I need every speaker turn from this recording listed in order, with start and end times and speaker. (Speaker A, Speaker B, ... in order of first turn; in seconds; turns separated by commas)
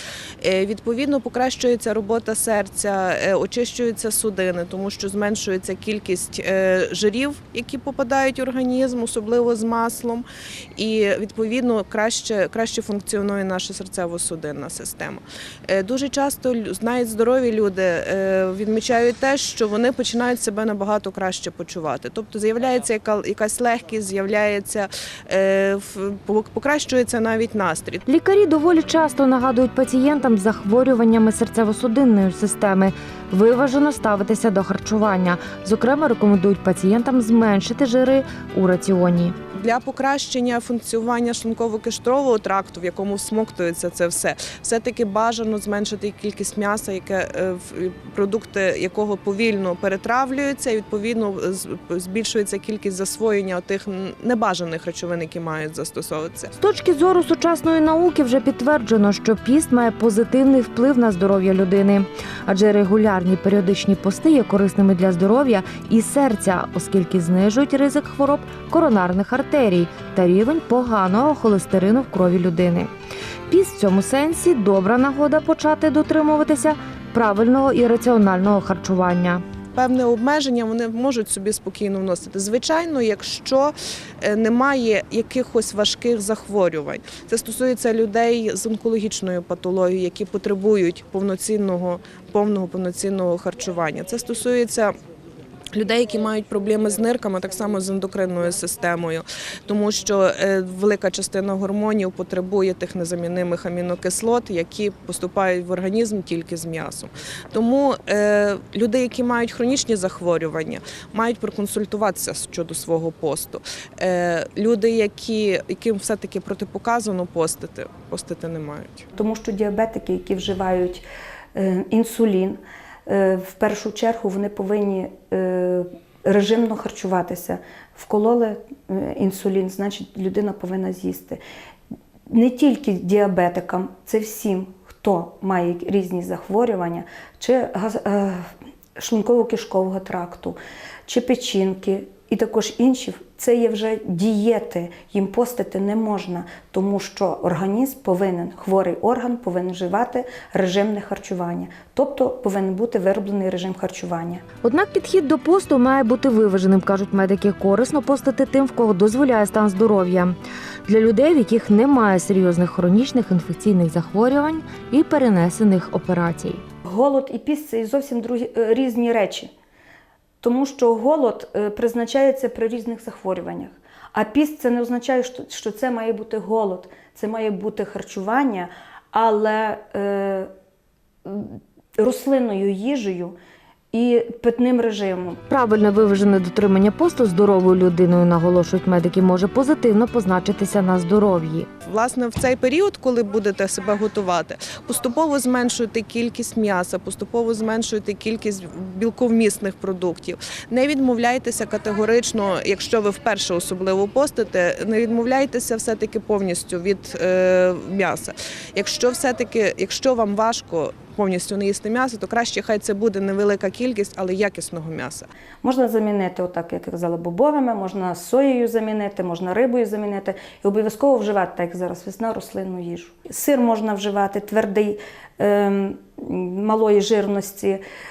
Speaker A: 0.4-28.0, Speaker B: 28.1-39.4, Speaker A: 39.5-56.5, Speaker B: 56.6-72.9, Speaker B: 73.5-79.4, Speaker A: 79.7-94.9, Speaker A: 95.7-119.0, Speaker C: 119.2-131.4, Speaker C: 132.3-138.4, Speaker C: 139.0-154.4, Speaker B: 154.6-166.6, Speaker C: 166.8-169.5, Speaker C: 170.4-180.5, Speaker C: 181.2-183.3, Speaker C: 183.9-185.4, Speaker B: 185.5-191.7, Speaker A: 191.8-215.3, Speaker C: 215.6-227.8